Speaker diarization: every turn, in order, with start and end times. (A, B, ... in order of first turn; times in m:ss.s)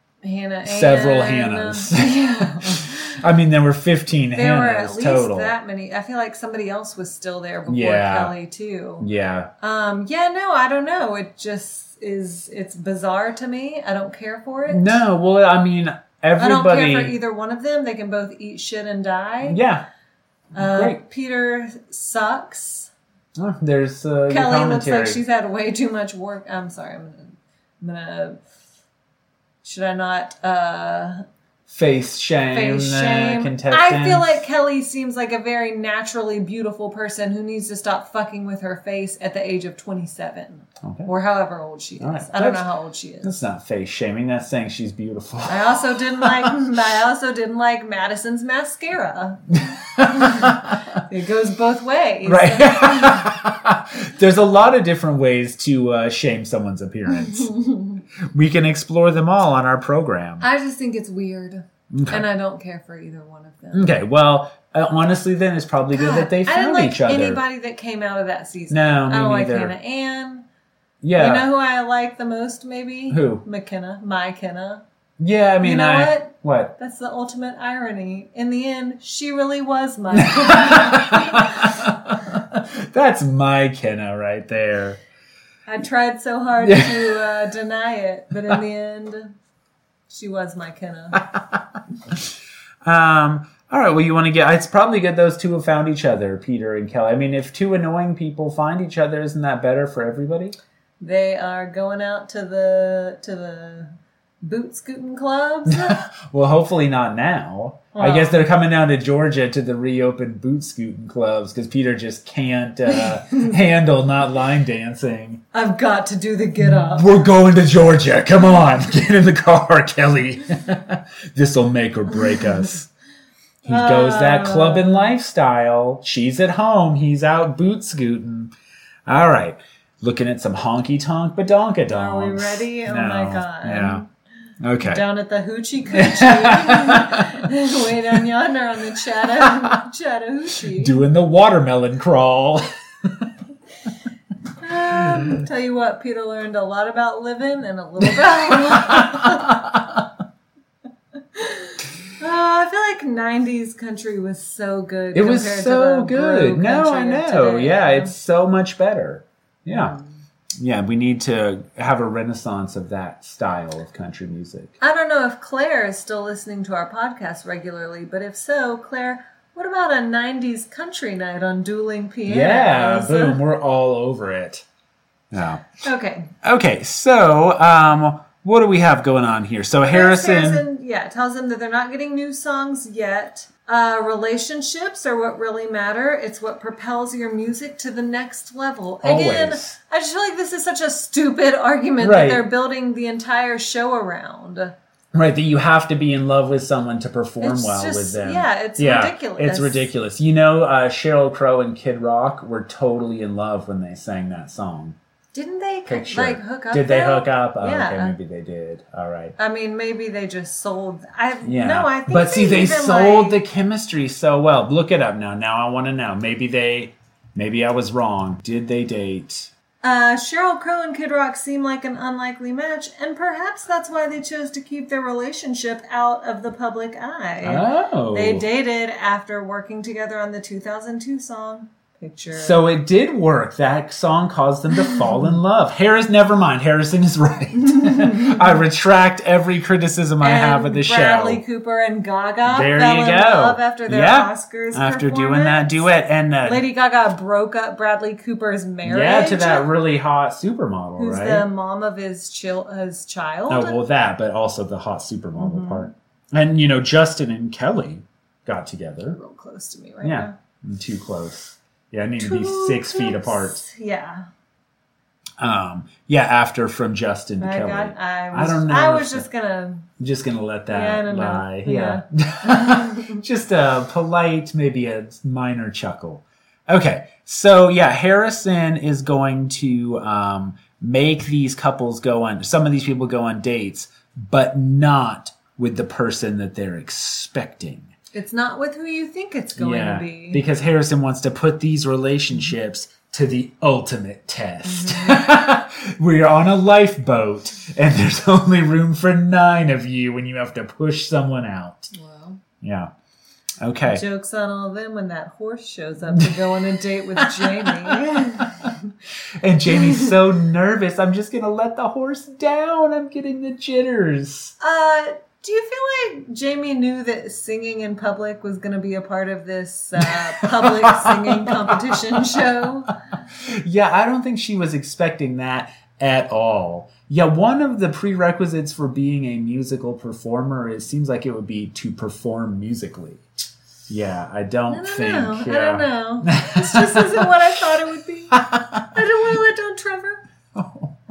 0:00.2-0:03.2 A
0:00.6-0:05.5 B
0:04.3-0:09.1 A
0:07.7-0:08.3 B
0:09.0-0:09.5 B
0:09.6-0:15.0 A
0:14.7-0:17.2 B
0:16.4-0:19.6 A
0:19.4-0:19.8 B
0:20.5-0:21.0 B
0:20.5-0:22.9 A
0:23.4-0:25.2 B
0:24.3-0:28.4 A
0:29.6-0:31.2 A
0:31.7-0:34.4 B
0:32.5-0:43.3 A
0:40.8-0:41.1 B
0:42.0-0:42.6 B
0:43.2-0:46.6 B
0:45.5-0:53.3 A
0:49.7-0:50.8 B
0:52.2-0:57.5 B
0:57.1-0:58.0 A
0:58.2-1:00.4 B
1:00.4-1:03.9 A
1:01.9-1:02.2 B
1:03.7-1:07.4 B
1:05.9-1:10.4 A
1:08.7-1:09.7 B
1:11.0-1:11.4 B
1:11.2-1:14.8 A
1:13.1-1:13.4 B
1:15.2-1:16.7 B
1:15.6-1:21.9 A
1:20.1-1:25.0 B
1:25.6-1:29.3 A
1:26.6-1:27.1 B
1:30.1-1:31.2 A
1:32.8-1:40.6 B
1:41.0-1:46.0 A
1:45.7-1:55.4 B
1:47.9-1:48.4 A
1:55.5-1:57.1 A
1:56.6-2:02.9 B
2:03.6-2:08.5 B
2:03.6-2:05.1 A
2:09.1-2:14.0 B
2:11.9-2:14.0 A
2:14.6-2:15.0 B
2:14.8-2:21.0 A
2:15.9-2:17.5 B
2:19.4-2:19.7 B
2:20.7-2:23.3 B
2:24.6-2:29.5 A
2:28.2-2:30.0 B
2:31.3-2:38.1 A
2:35.1-2:39.9 B
2:39.7-2:40.1 A
2:40.6-2:44.7 B
2:44.8-2:53.4 A
2:52.2-2:54.6 B
2:55.3-2:55.8 B
2:55.8-2:56.3 A
2:56.4-3:00.6 B
2:59.9-3:14.7 A
3:09.0-3:09.8 B
3:12.0-3:12.4 B
3:15.1-3:25.0 B
3:17.4-3:19.9 A
3:25.3-3:28.1 A
3:25.8-3:29.4 B
3:29.4-3:33.4 A
3:31.4-3:39.5 B
3:39.8-3:52.6 A
3:47.4-3:48.4 B
3:52.3-4:01.4 B
3:57.6-3:58.5 A
4:00.2-4:05.8 A
4:02.4-4:06.6 B
4:06.4-4:09.7 A
4:08.8-4:11.4 B
4:11.0-4:13.8 A
4:13.5-4:19.2 B
4:15.4-4:15.9 A
4:19.1-4:20.3 A
4:20.0-4:23.6 B
4:22.2-4:24.3 A
4:25.4-4:29.2 B
4:27.4-4:29.9 A
4:30.0-4:47.9 B
4:30.7-4:33.2 A
4:48.1-4:50.4 A
4:49.6-5:01.9 B
4:54.6-4:55.3 A
5:01.9-5:02.4 A
5:02.6-5:02.9 B
5:03.6-5:04.0 B
5:03.8-5:08.7 A
5:06.1-5:06.6 B
5:07.2-5:08.7 B
5:09.4-5:14.5 B
5:14.6-5:22.9 A
5:20.0-5:22.4 B
5:23.4-5:33.2 B
5:33.9-5:37.4 B
5:34.7-5:40.2 A
5:38.3-5:39.0 B
5:40.5-5:41.0 B